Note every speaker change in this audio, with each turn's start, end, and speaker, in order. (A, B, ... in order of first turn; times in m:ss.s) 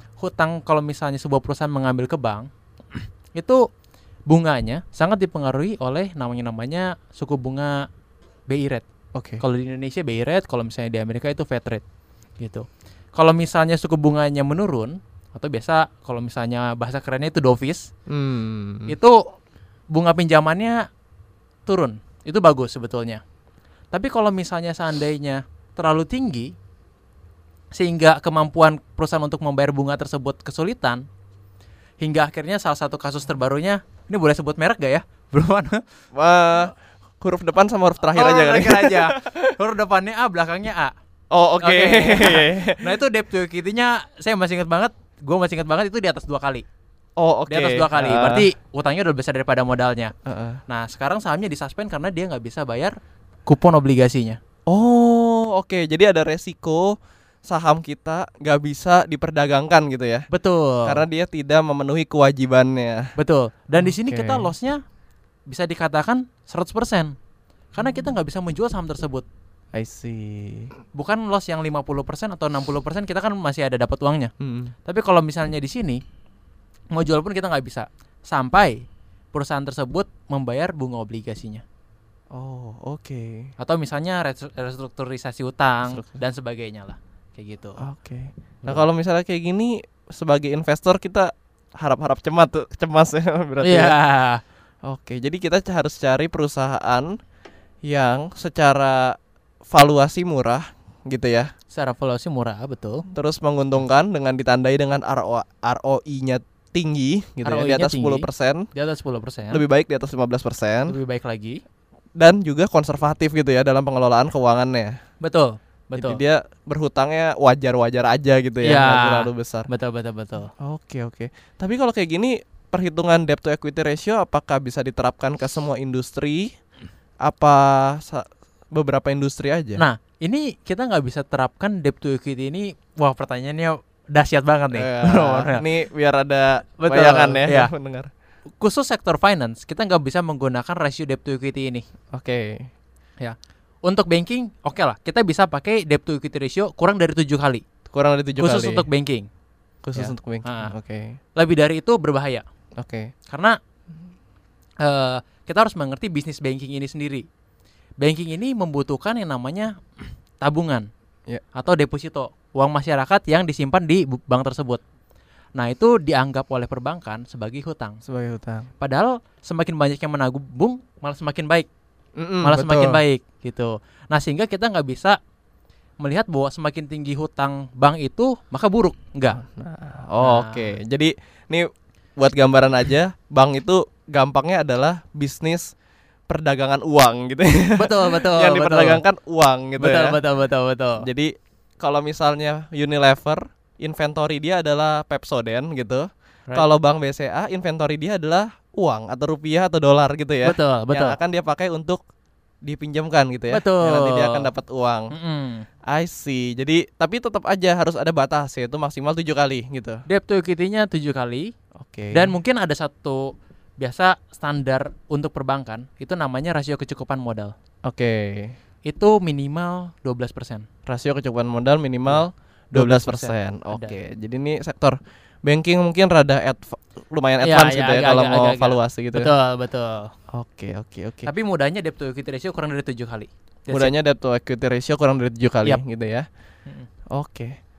0:00.2-0:03.6 A
0:04.3-0:07.9 A
0:08.5-0:08.8 A
0:09.2-0:09.4 B
0:09.4-0:11.8 A
0:12.4-0:17.9 A
0:18.1-0:19.0 B
0:18.9-0:19.2 A
0:19.9-0:20.9 A
0:21.7-0:23.2 A
0:23.9-0:26.5 A
0:27.7-0:31.0 A
0:32.0-0:35.8 A
0:36.1-0:39.5 B
0:38.1-0:40.9 A
0:41.3-0:42.8 B
0:41.6-0:46.6 A
0:47.2-0:48.5 B
0:47.5-0:50.1 A
0:50.3-0:50.6 B
0:50.7-0:53.0 A
0:53.5-0:54.4 A
0:54.7-1:00.3 B
1:00.3-1:01.0 A
1:00.8-1:03.1 B
1:03.2-1:04.8 A
1:03.8-1:04.5 B
1:05.5-1:07.2 A
1:07.8-1:09.2 A
1:09.7-1:10.7 B
1:10.9-1:14.3 A
1:14.4-1:14.7 B
1:14.8-1:16.0 A
1:16.9-1:21.6 A
1:22.3-1:23.5 B
1:23.6-1:27.8 A
1:27.8-1:34.0 B
1:33.6-1:34.4 A
1:34.8-1:37.1 B
1:37.8-1:39.2 B
1:39.7-1:41.5 B
1:41.7-1:43.0 A
1:43.1-1:48.7 B
1:47.4-1:49.6 A
1:49.5-1:50.9 B
1:50.9-1:51.6 A
1:52.2-1:55.0 B
1:55.2-1:56.2 A
1:56.0-1:59.7 B
1:58.6-2:00.5 A
2:00.6-2:06.5 B
2:07.2-2:09.8 B
2:09.8-2:15.6 A
2:14.7-2:18.1 B
2:16.8-2:17.7 A
2:18.6-2:21.8 A
2:22.1-2:22.7 B
2:23.2-2:27.6 A
2:27.9-2:28.9 B
2:28.4-2:29.3 A
2:29.8-2:31.2 B
2:29.9-2:30.7 A
2:31.4-2:32.4 A
2:32.8-2:33.1 B
2:33.3-2:33.6 A
2:34.8-2:37.3 A
2:38.0-2:39.8 A
2:40.4-2:40.9 A
2:41.5-2:44.8 A
2:45.6-2:48.0 A
2:48.0-2:48.7 B
2:48.8-2:51.7 A
2:52.2-2:53.0 B
2:52.4-2:55.2 A
2:56.0-2:59.4 A
2:59.4-3:05.7 B
3:00.2-3:00.7 A
3:06.3-3:10.2 B
3:07.8-3:09.0 A
3:09.8-3:11.1 A
3:11.0-3:22.0 B
3:20.4-3:21.2 A
3:22.6-3:25.1 B
3:23.5-3:24.5 A
3:25.1-3:25.7 A
3:25.9-3:30.0 B
3:30.1-3:31.5 A
3:31.8-3:32.3 B
3:32.1-3:37.5 A
3:37.8-3:38.6 B
3:38.9-3:40.7 A
3:40.9-3:49.3 B
3:42.7-3:44.0 A
3:47.4-3:50.1 A
3:50.3-3:51.3 B
3:51.2-3:53.9 A
3:53.7-3:56.3 B
3:57.1-3:57.6 B